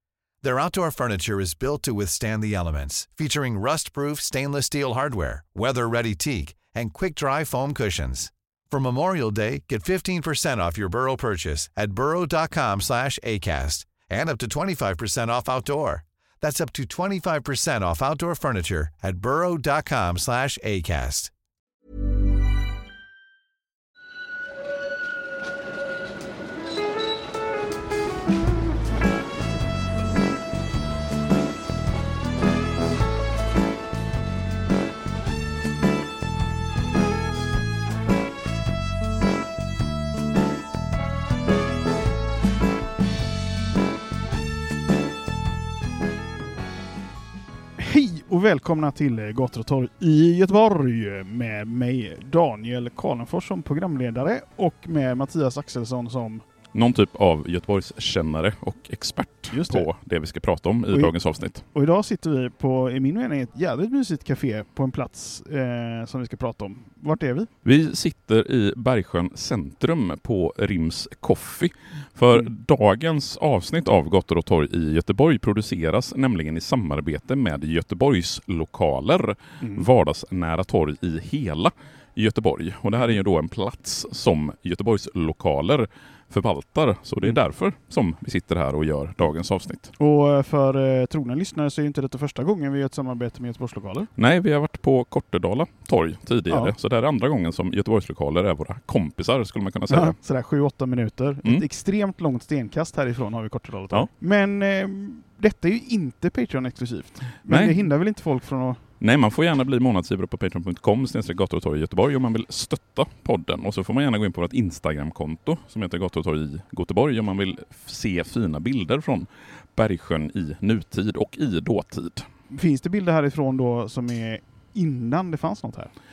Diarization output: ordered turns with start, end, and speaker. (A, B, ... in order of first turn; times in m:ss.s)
0:00.4-0:21.3 A
0:47.8-0:56.4 B
0:56.7-1:01.6 C
0:59.5-0:59.9 B
1:01.7-1:07.5 B
1:07.6-1:29.9 C
1:30.0-1:34.1 B
1:34.2-1:40.2 C
1:39.9-1:48.8 B
1:47.5-1:47.8 C
1:49.0-2:02.3 C
2:02.5-2:05.9 B